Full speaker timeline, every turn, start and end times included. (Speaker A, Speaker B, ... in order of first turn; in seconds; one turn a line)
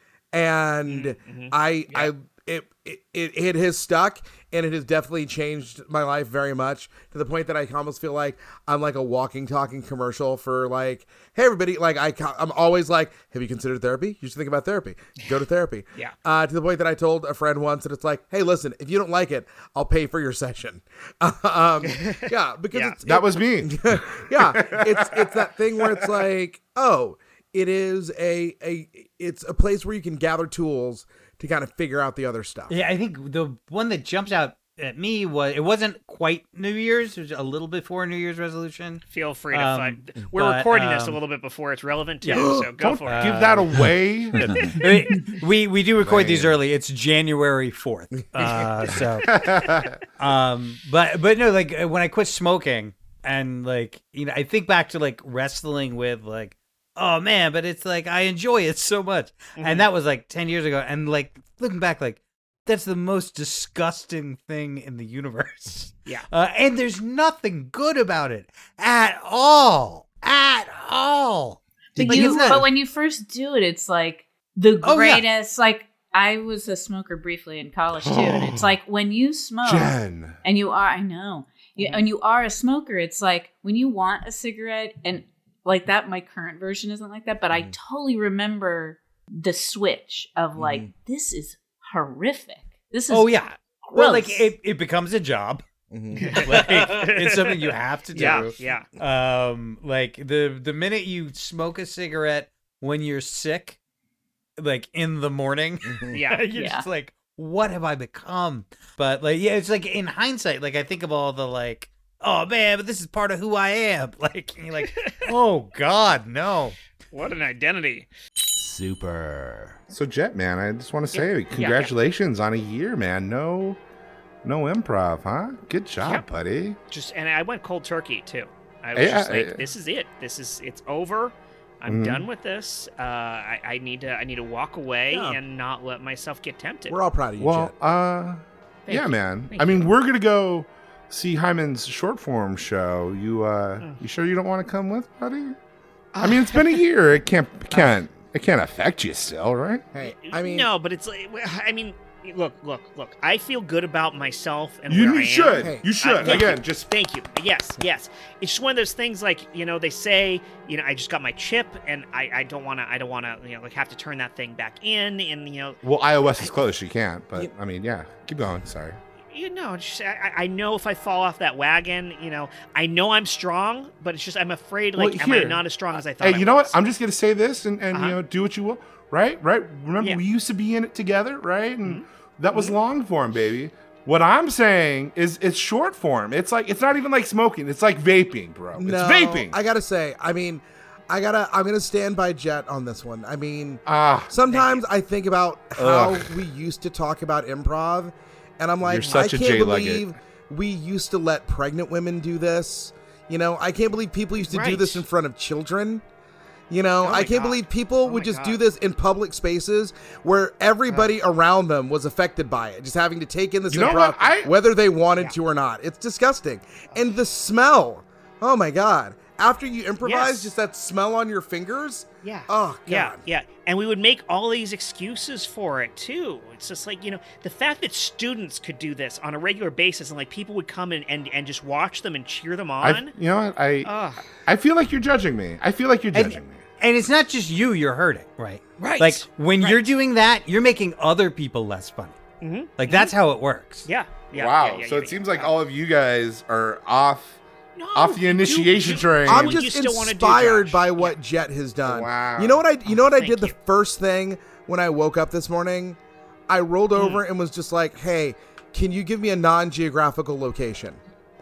Speaker A: 0.3-32.7
Speaker B: 0.9-2.1
Speaker B: 21.8-23.0
Speaker C: 23.1-25.5
Speaker D: 32.7-41.2
Speaker B: 39.1-43.3
Speaker D: 42.2-42.5
Speaker A: 42.4-42.7
Speaker C: 42.8-44.8
Speaker D: 43.1-49.5
Speaker C: 46.0-46.6
Speaker C: 49.2-50.0
Speaker D: 50.2-72.7
Speaker B: 59.6-59.9
Speaker E: 72.0-94.5
Speaker A: 72.0-72.6
Speaker D: 74.8-75.2
Speaker C: 78.0-78.7
Speaker C: 79.6-80.4
Speaker A: 90.6-90.9
Speaker D: 93.1-95.6
Speaker A: 95.9-96.3
Speaker B: 96.1-98.9
Speaker D: 96.4-103.8
Speaker D: 104.6-116.8
Speaker B: 106.1-106.7
Speaker E: 106.5-106.8
Speaker B: 115.0-115.2
Speaker B: 117.1-118.1
Speaker C: 118.6-123.8
Speaker B: 121.1-121.9
Speaker C: 124.4-126.8
Speaker B: 126.0-126.3
Speaker B: 126.9-137.0
Speaker C: 128.9-129.6
Speaker C: 131.9-132.2
Speaker A: 135.1-135.4
Speaker A: 136.9-137.7
Speaker C: 137.4-145.6
Speaker B: 138.9-139.9
Speaker B: 146.2-146.8
Speaker C: 146.2-149.9
Speaker A: 149.9-150.7
Speaker B: 150.0-165.8
Speaker C: 154.9-156.9
Speaker A: 155.6-156.5
Speaker C: 165.8-169.0
Speaker B: 169.3-176.7
Speaker C: 175.0-175.6
Speaker C: 176.2-189.6
Speaker B: 181.8-182.8
Speaker A: 188.8-206.0
Speaker C: 193.9-194.3
Speaker B: 194.5-194.8
Speaker C: 195.8-196.4
Speaker C: 198.8-200.1
Speaker B: 199.0-199.3
Speaker B: 204.5-205.0
Speaker A: 206.7-223.2
Speaker B: 207.0-208.6
Speaker B: 210.9-211.1
Speaker C: 213.7-214.5
Speaker B: 213.7-214.1
Speaker B: 220.0-220.5
Speaker B: 222.2-233.1
Speaker C: 232.8-233.9
Speaker B: 233.8-234.2
Speaker C: 234.5-236.6
Speaker D: 236.1-242.2
Speaker B: 238.8-239.9
Speaker B: 242.4-243.1
Speaker D: 242.8-243.9
Speaker B: 243.8-245.6
Speaker C: 244.3-247.4
Speaker B: 247.8-251.1
Speaker C: 247.9-249.6
Speaker A: 249.3-256.0
Speaker C: 251.9-252.6
Speaker B: 252.9-253.6
Speaker A: 256.5-261.0
Speaker B: 257.0-257.2